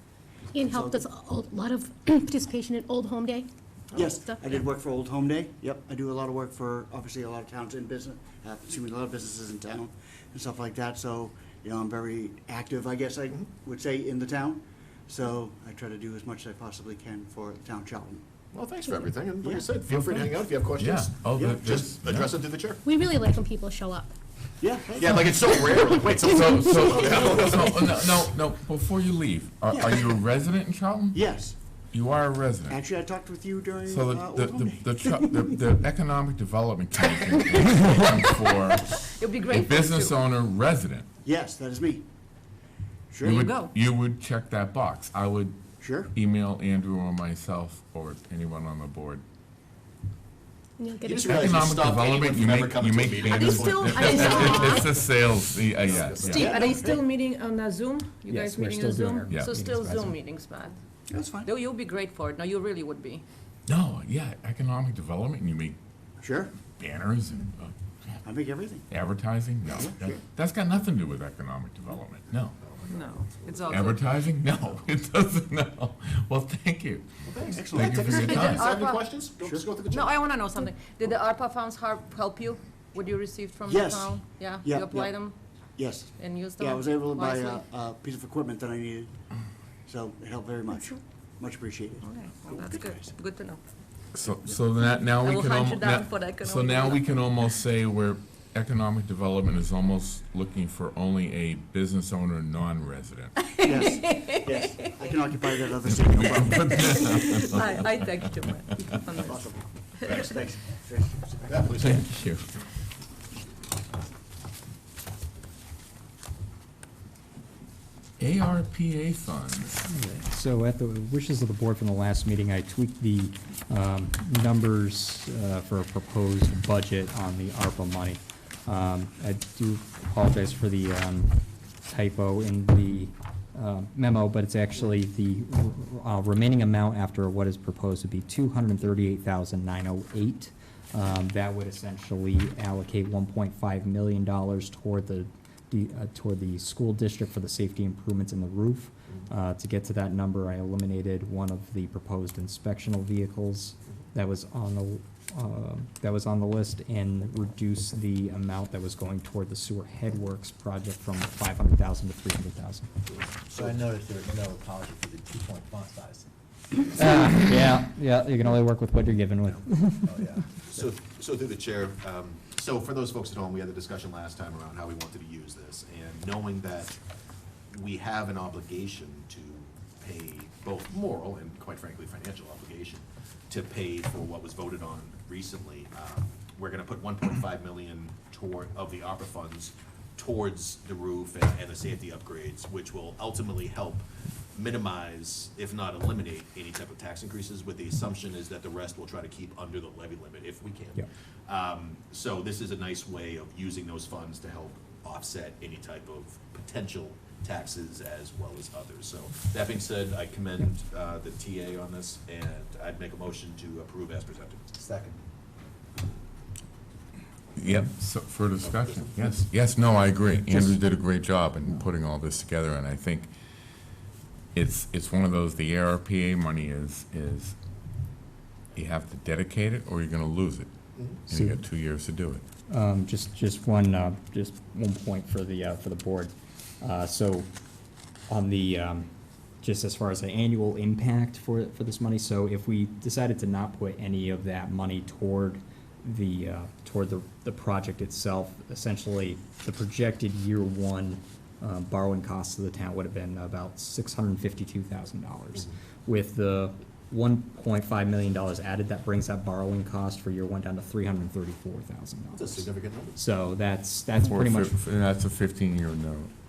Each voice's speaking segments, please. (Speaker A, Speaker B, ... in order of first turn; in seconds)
Speaker A: 0.5-4.6, 22.9-24.1, 25.8-26.7, 50.8-51.5, 54.0-54.9
Speaker B: 0.6-1.0, 4.0-18.2, 19.4-19.7, 21.3-21.8, 24.6-25.7, 29.7-30.1, 31.1-31.6, 32.7-35.5, 41.2-42.0, 43.1-43.5, 45.8-46.1, 56.3-57.0, 61.1-61.5, 66.2-66.5, 68.2-68.9, 69.8-70.2, 77.5-78.5, 83.7-85.1, 85.8-89.1, 89.9-93.1, 103.6-107.7, 109.1-111.9
Speaker C: 18.5-22.8, 25.0-27.9, 51.0-54.8, 55.8-56.7, 72.6-74.0, 77.3-80.3, 111.5-112.0, 163.1-163.8, 170.7-177.0, 177.7-214.7, 218.6-219.4, 262.3-263.2
Speaker D: 20.0-22.4, 26.2-31.2, 31.9-32.8, 33.9-41.1, 43.2-45.6, 46.1-49.2, 51.3-56.6, 63.7-65.8, 66.8-68.2, 68.9-72.6, 73.7-77.1, 77.8-78.7, 94.1-103.3, 106.0-107.7, 111.8-112.5, 118.2-119.8, 217.6-223.3, 224.6-227.6, 228.8-230.7, 231.3-232.4, 264.3-266.3
Speaker E: 38.0-40.2, 43.2-43.7, 53.2-54.9, 56.2-60.8, 61.4-63.2, 72.9-74.0, 78.1-79.1, 79.9-85.4, 86.2-87.6, 90.7-91.0, 92.0-93.6, 94.8-97.3, 103.4-105.6, 106.2-109.4
Speaker F: 58.3-60.2, 119.9-162.9, 166.9-170.2, 231.3-231.6, 232.7-237.5, 238.3-239.1, 239.6-264.8
Speaker G: 163.6-166.3, 170.0-170.4, 214.8-215.2